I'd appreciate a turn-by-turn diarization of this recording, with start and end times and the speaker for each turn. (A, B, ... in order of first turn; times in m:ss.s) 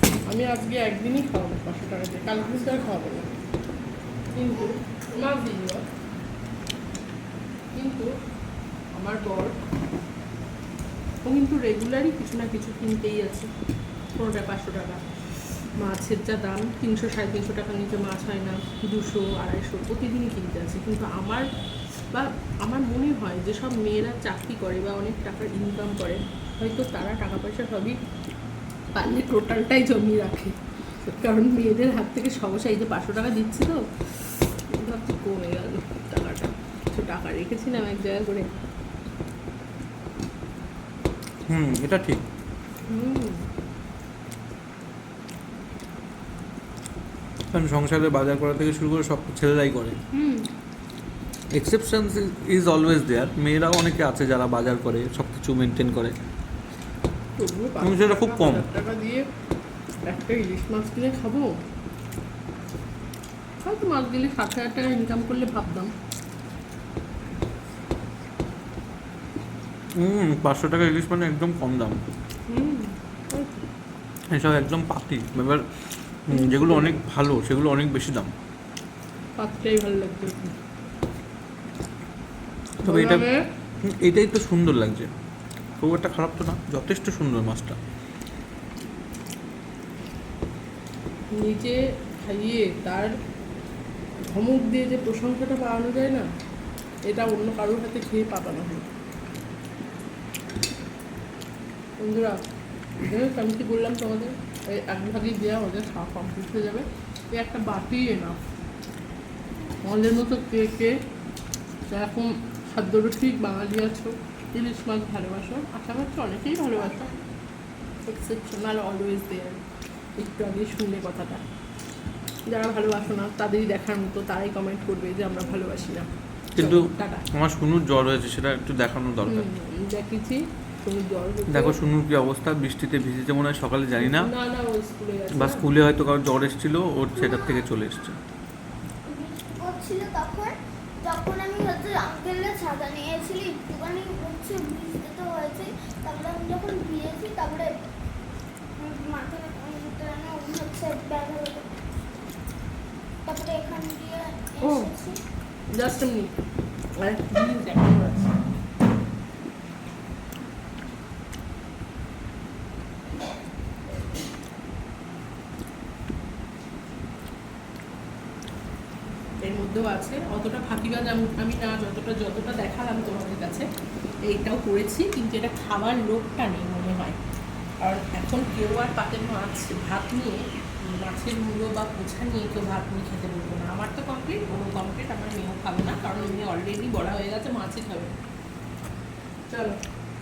0:00.3-0:03.3 A
0:04.3-0:05.8 A
0:07.8-0:08.1 A
0:09.0-0:09.6 A
0:11.2-0:13.5 A
0:14.2-0:15.0 A
0:15.8-0:21.4 A
0:22.1-0:28.0 A
0:28.9-0:38.5 A
0:41.5-0:42.2 B
0:42.9-0:43.4 A
0:47.5-0:50.0 B
0:50.1-0:50.5 A
0:51.5-0:56.2 B
0:57.4-0:59.2 A
0:57.8-0:58.6 B
1:00.1-1:01.5 A
1:03.6-1:05.9 A
1:10.0-1:12.0 B
1:12.5-1:13.6 A
1:14.3-1:15.6 B
1:16.3-1:18.3 B
1:16.3-1:17.0 A
1:19.4-1:20.5 A
1:22.8-1:23.3 B
1:22.9-1:23.4 A
1:23.8-1:25.1 B
1:25.8-1:27.8 B
1:31.4-1:33.1 A
1:34.3-1:36.3 A
1:37.1-1:38.9 A
1:42.0-1:42.4 A
1:43.0-1:48.4 A
1:49.6-1:49.8 C
1:49.8-1:50.9 A
1:51.9-1:57.1 A
1:56.8-1:57.3 C
1:58.1-1:59.6 A
2:00.2-2:01.4 A
2:02.5-2:07.2 A
2:06.6-2:09.5 B
2:09.3-2:11.8 A
2:11.5-2:14.3 B
2:14.0-2:15.6 A
2:15.3-2:18.2 B
2:17.1-2:17.7 C
2:19.1-2:27.7 C
2:28.8-2:31.8 C
2:33.3-2:35.2 C
2:34.6-2:34.9 A
2:35.7-2:36.3 A
2:37.0-2:38.4 A
2:49.4-2:53.7 A
2:54.2-2:57.2 A
2:57.8-3:08.1 A
3:06.0-3:06.4 C
3:09.5-3:09.8 A